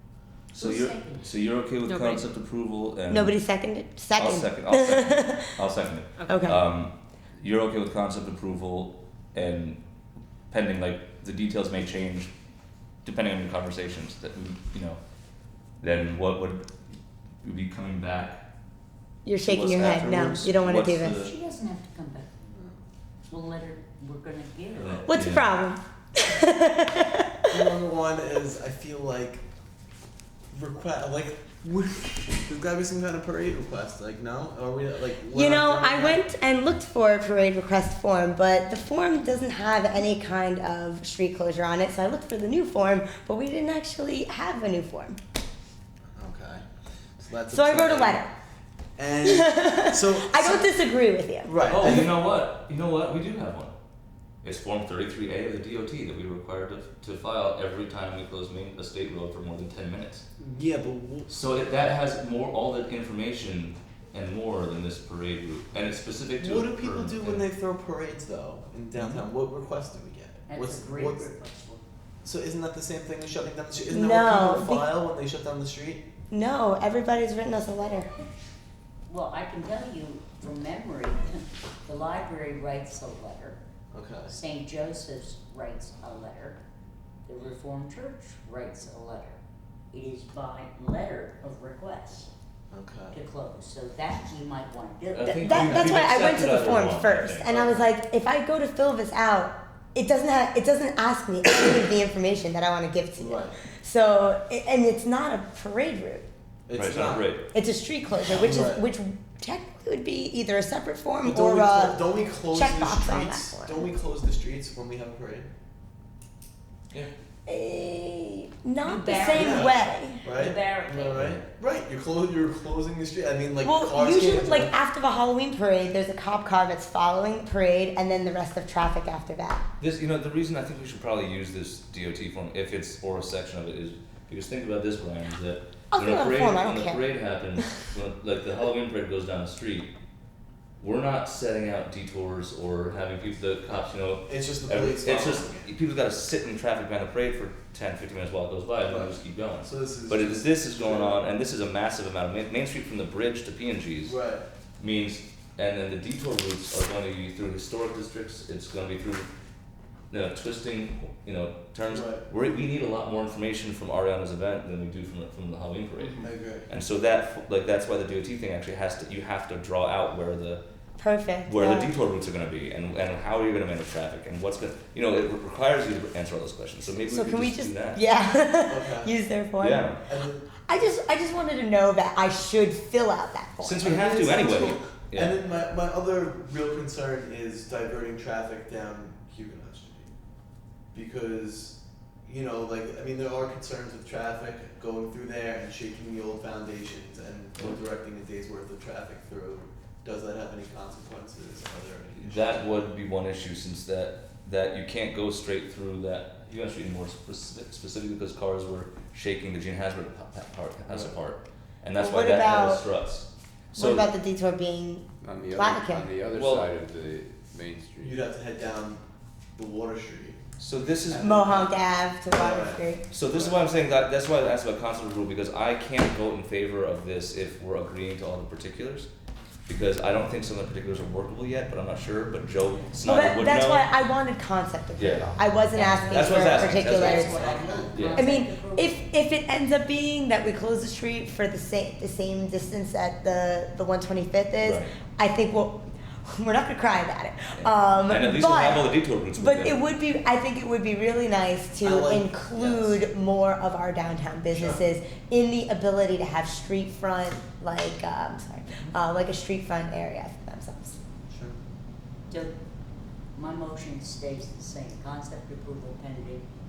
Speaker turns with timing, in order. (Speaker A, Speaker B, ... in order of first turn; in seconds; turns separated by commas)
Speaker A: 0.5-3.4, Speaker B: 0.5-1.3, Speaker C: 1.9-2.2, Speaker D: 3.1-5.5, Speaker A: 4.2-9.8, Speaker D: 6.3-6.6, Speaker A: 10.5-12.3, Speaker A: 13.0-15.0, Speaker A: 15.8-16.7, Speaker A: 17.4-18.4, Speaker D: 19.2-21.2, Speaker A: 19.5-21.3, Speaker B: 21.1-22.3, Speaker E: 22.5-22.8, Speaker B: 23.3-25.0, Speaker A: 24.8-25.5, Speaker D: 25.1-27.2, Speaker E: 27.5-29.4, Speaker E: 30.5-36.2, Speaker D: 35.2-45.2, Speaker E: 46.1-46.6, Speaker E: 47.2-48.3, Speaker D: 47.5-48.3, Speaker E: 49.0-50.8, Speaker D: 49.2-51.5, Speaker E: 51.4-52.2, Speaker A: 51.7-53.7, Speaker A: 54.4-60.3, Speaker E: 60.4-61.3, Speaker A: 61.3-67.5, Speaker E: 66.4-71.3, Speaker B: 70.5-71.8, Speaker E: 72.2-76.0, Speaker D: 73.9-74.9, Speaker D: 76.3-78.1, Speaker B: 79.1-83.6, Speaker E: 83.9-84.3, Speaker B: 84.3-86.6, Speaker B: 87.3-89.4, Speaker B: 89.9-92.3, Speaker E: 92.7-93.2, Speaker B: 93.1-95.9, Speaker A: 95.2-97.8, Speaker D: 95.3-106.2, Speaker E: 103.2-103.6, Speaker E: 106.7-107.3, Speaker A: 106.8-107.5, Speaker D: 107.5-112.0, Speaker E: 108.3-108.8, Speaker E: 111.2-115.5, Speaker D: 112.5-113.8, Speaker D: 117.5-120.3, Speaker B: 118.8-121.3, Speaker E: 119.3-124.7, Speaker D: 123.6-129.6, Speaker A: 129.8-139.9, Speaker D: 135.9-137.0, Speaker A: 140.8-154.2, Speaker E: 144.3-145.7, Speaker E: 148.9-151.2, Speaker E: 154.0-154.5, Speaker A: 154.8-159.3, Speaker A: 160.1-170.6, Speaker E: 161.9-162.2, Speaker E: 166.2-166.7, Speaker D: 171.0-171.9, Speaker A: 171.5-178.0, Speaker D: 177.1-179.9, Speaker E: 178.7-179.2, Speaker A: 179.6-180.0, Speaker E: 180.0-180.5, Speaker D: 180.6-183.9, Speaker A: 183.6-185.4, Speaker E: 183.8-190.1, Speaker E: 190.9-202.8, Speaker A: 202.2-214.1, Speaker D: 211.9-212.9, Speaker D: 213.8-216.1, Speaker C: 215.2-218.2, Speaker A: 216.3-216.7, Speaker E: 218.0-219.0, Speaker E: 219.6-220.4, Speaker A: 220.6-221.7, Speaker E: 221.1-221.7, Speaker D: 221.1-223.0, Speaker E: 222.3-222.8, Speaker A: 223.1-229.1, Speaker A: 229.7-233.9, Speaker D: 233.0-237.5, Speaker A: 235.0-235.4, Speaker B: 235.8-239.0, Speaker A: 236.1-237.3, Speaker E: 236.4-238.2, Speaker A: 237.9-238.3, Speaker D: 238.1-261.0, Speaker A: 244.6-244.9, Speaker A: 247.6-249.8, Speaker E: 251.8-253.1, Speaker E: 254.5-254.8, Speaker E: 261.3-261.6, Speaker B: 263.4-266.4